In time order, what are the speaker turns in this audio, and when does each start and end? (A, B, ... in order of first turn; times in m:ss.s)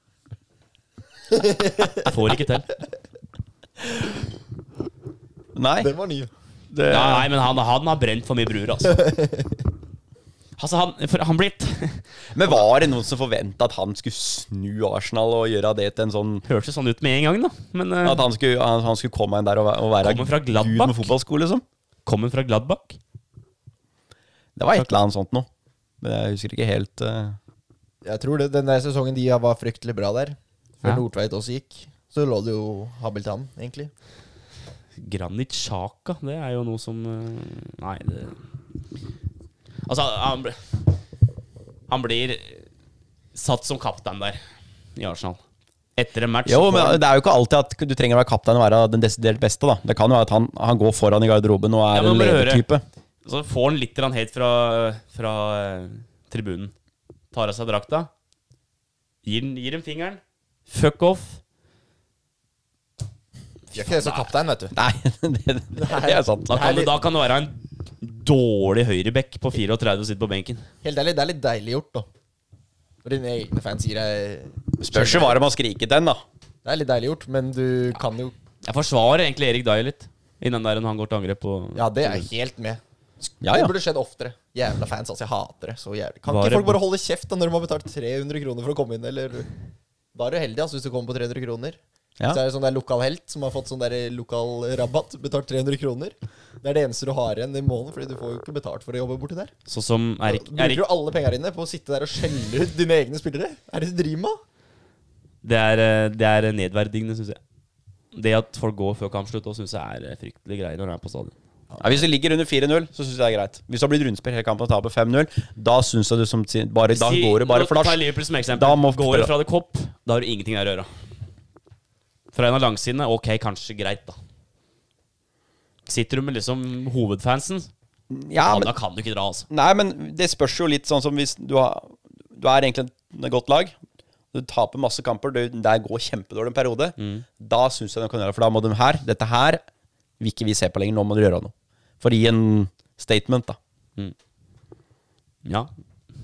0:01.3-0:02.1 A
0:01.9-0:02.7 B
0:05.6-0:05.9 C
0:05.8-0:06.3 A
0:06.7-0:07.3 C
0:06.9-0:09.0 B
0:09.0-0:09.5 A
0:10.6-0:12.6 B
0:12.3-0:16.4 C
0:16.4-0:18.2 B
0:18.0-0:21.6 C
0:20.0-0:21.1 B
0:22.0-0:23.0 B
0:24.6-0:25.5 C
0:26.0-0:27.4 C
0:28.0-0:33.9 A
0:35.0-0:38.4 B
0:39.9-0:40.7 B
0:41.9-0:42.7 B
0:43.3-0:44.4 B
0:45.0-0:45.4 B
0:46.0-0:47.0 B
0:46.5-0:52.8 C
0:51.9-0:52.6 B
0:53.2-0:56.7 B
0:57.3-0:58.1 B
0:59.2-1:01.4 B
1:03.7-1:04.3 B
1:03.7-1:04.7 A
1:04.8-1:06.5 C
1:05.8-1:07.0 A
1:06.5-1:10.7 B
1:10.8-1:12.1 A
1:13.0-1:15.4 A
1:14.8-1:16.2 C
1:16.6-1:18.3 A
1:18.6-1:22.3 B
1:21.8-1:29.5 A
1:23.4-1:23.7 C
1:26.3-1:26.8 B
1:30.2-1:39.5 A
1:39.7-1:40.8 B
1:40.3-1:44.4 A
1:45.4-1:47.4 B
1:48.1-1:51.3 B
1:51.8-1:58.0 C
1:56.9-2:00.9 B
1:58.5-1:59.3 C
2:02.3-2:04.2 B
2:05.9-2:07.7 B
2:08.1-2:08.7 C
2:08.4-2:09.5 B
2:09.5-2:13.8 C
2:14.3-2:19.6 C
2:17.0-2:17.3 B
2:20.2-2:23.6 C
2:25.4-2:25.7 B